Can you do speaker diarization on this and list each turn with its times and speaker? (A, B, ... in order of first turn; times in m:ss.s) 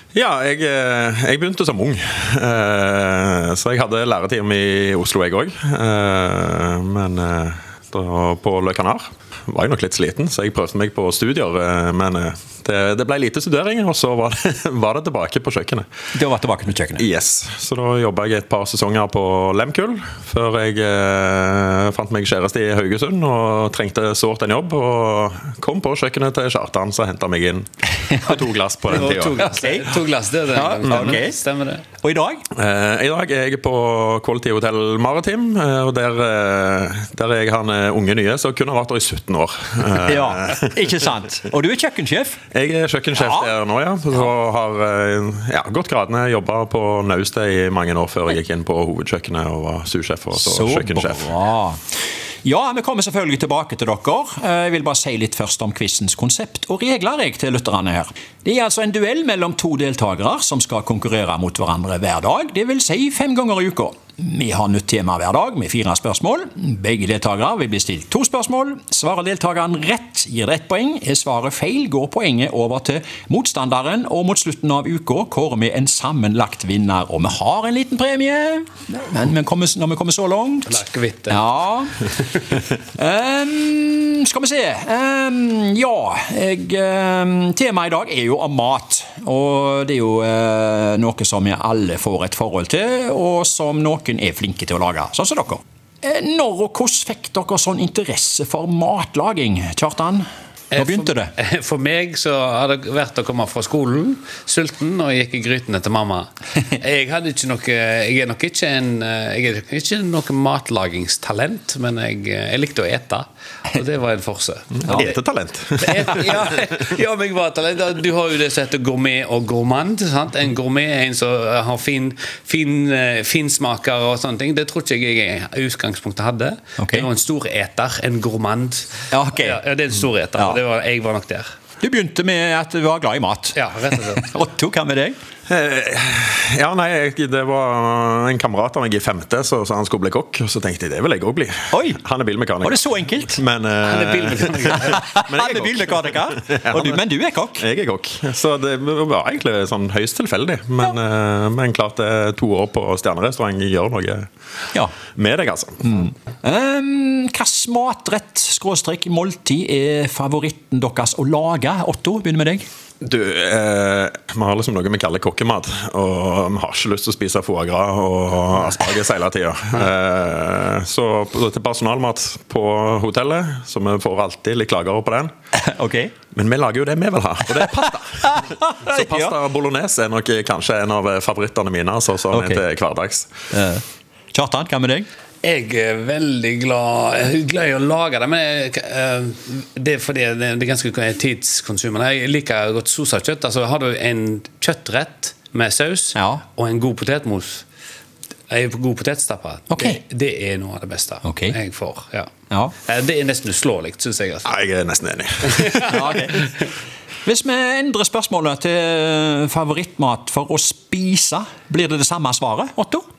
0:00.1-0:15.8 A
0:16.2-0:17.0 B
0:17.0-0:29.5 A
0:28.9-0:31.9 C
0:29.5-0:29.8 B
0:30.5-0:31.3 B
0:32.0-0:32.4 B
0:32.5-0:40.9 A
0:40.1-0:42.4 B
0:42.5-0:51.3 A
0:50.4-0:51.8 B
0:52.4-1:20.7 B
1:20.7-1:21.4 C
1:21.3-1:21.9 B
1:23.0-1:40.2 B
1:40.7-1:55.2 C
1:40.8-1:41.3 B
1:54.8-1:56.3 A
1:55.8-2:11.5 C
2:06.8-2:07.1 B
2:09.1-2:09.5 B
2:11.8-2:13.6 B
2:13.5-2:14.2 C
2:14.2-2:15.2 B
2:15.5-2:34.3 A
2:22.6-2:23.4 B
2:23.8-2:25.1 C
2:25.0-2:27.6 B
2:35.1-2:36.1 A
2:36.4-2:42.6 B
2:43.0-2:55.3 A
2:55.6-2:56.1 B
2:56.3-3:03.3 A
2:57.6-2:59.3 B
3:02.3-3:02.6 B
3:03.5-3:05.1 B
3:05.4-3:17.6 C
3:16.2-3:16.4 B
3:18.5-3:22.3 C
3:21.2-3:21.6 B
3:22.8-3:24.5 C
3:24.4-3:26.1 A
3:25.5-3:26.6 C
3:25.9-3:26.4 B
3:27.2-3:33.0 B